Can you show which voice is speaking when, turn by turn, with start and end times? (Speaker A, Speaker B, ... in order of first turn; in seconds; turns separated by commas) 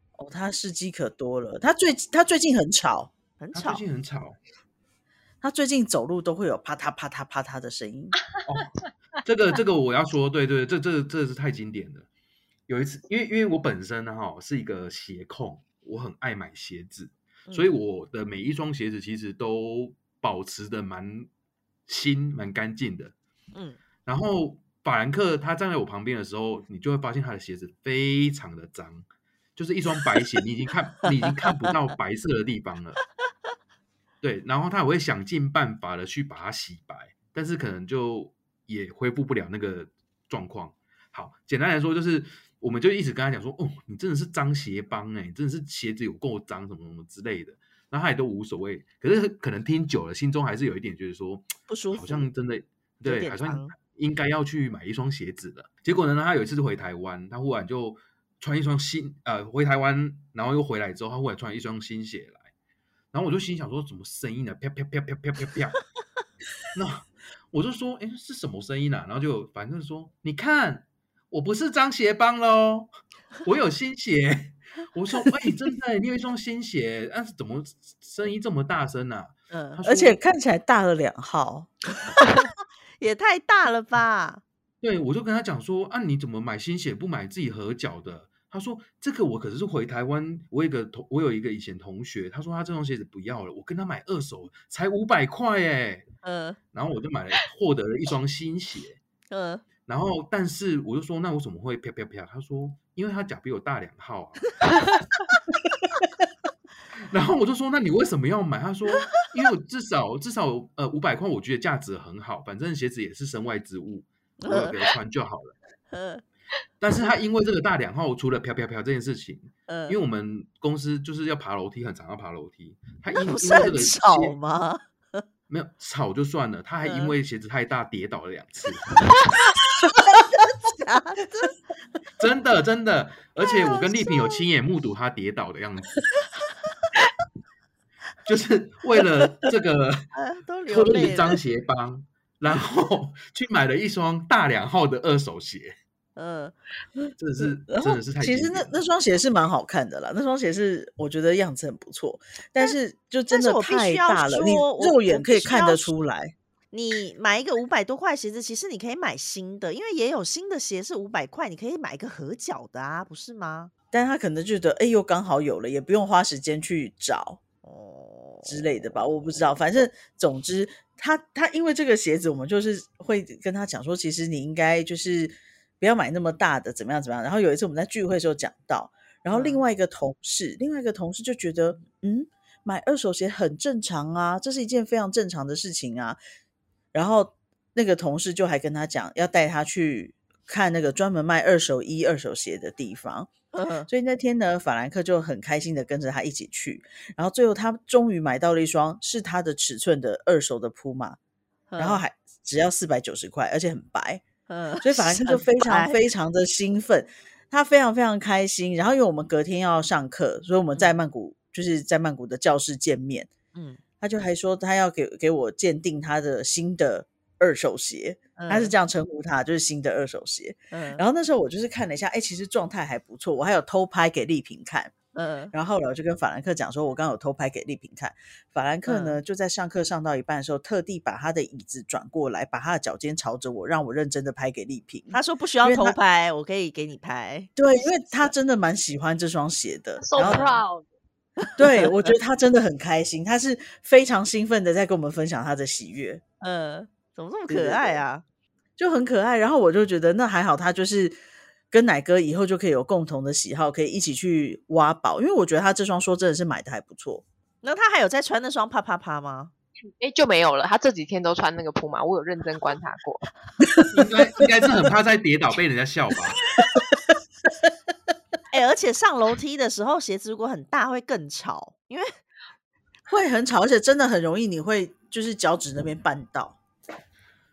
Speaker A: 0.2-3.1, Speaker B: 3.4-3.8, Speaker C: 3.5-4.4, Speaker A: 5.4-8.2, Speaker C: 8.4-12.1, Speaker C: 12.7-21.3, Speaker B: 17.5-17.7, Speaker C: 21.9-23.1, Speaker B: 23.5-23.8, Speaker C: 24.1-29.0, Speaker C: 29.6-33.0, Speaker C: 34.2-62.5, Speaker B: 51.7-52.3, Speaker B: 53.0-53.7, Speaker C: 63.1-65.8, Speaker C: 66.7-72.9, Speaker C: 73.4-80.2, Speaker B: 79.5-79.8, Speaker A: 79.8-81.7, Speaker B: 82.2-84.4, Speaker C: 84.8-96.0, Speaker B: 96.2-96.6, Speaker C: 96.7-99.0, Speaker B: 99.3-99.6, Speaker C: 99.8-105.0, Speaker C: 107.1-115.5, Speaker B: 114.4-114.8, Speaker B: 115.9-116.2, Speaker C: 116.8-124.3, Speaker B: 119.7-120.0, Speaker B: 123.1-125.2, Speaker C: 125.5-129.2, Speaker B: 126.8-127.2, Speaker B: 130.5-131.5, Speaker C: 132.2-136.0, Speaker B: 133.5-134.4, Speaker C: 138.2-140.1, Speaker B: 140.1-141.3, Speaker C: 140.7-145.7, Speaker B: 146.2-146.6, Speaker C: 147.2-148.7, Speaker A: 147.4-156.3, Speaker B: 153.3-155.9, Speaker B: 156.7-163.7, Speaker A: 163.9-167.4, Speaker B: 167.6-168.9, Speaker A: 168.4-186.2, Speaker B: 179.3-179.6, Speaker A: 186.9-193.3, Speaker B: 193.5-193.9, Speaker A: 193.9-201.2, Speaker B: 201.7-202.0, Speaker A: 201.8-204.2, Speaker B: 204.5-206.0, Speaker A: 204.8-213.3, Speaker B: 213.5-213.8, Speaker A: 214.0-224.9, Speaker B: 218.3-218.7, Speaker B: 220.7-221.0, Speaker B: 225.1-225.5, Speaker A: 225.5-236.0, Speaker B: 228.8-229.2, Speaker B: 235.1-238.3, Speaker A: 237.6-240.6, Speaker D: 240.0-240.8, Speaker B: 240.2-240.6, Speaker B: 241.6-242.1, Speaker A: 241.6-246.2, Speaker B: 246.4-248.2, Speaker A: 247.5-248.0, Speaker A: 248.8-251.2, Speaker A: 251.7-257.2, Speaker B: 257.6-259.5, Speaker D: 260.0-263.3, Speaker A: 263.6-264.1, Speaker C: 263.9-266.4, Speaker A: 266.6-266.8, Speaker B: 268.5-272.1, Speaker A: 273.1-276.6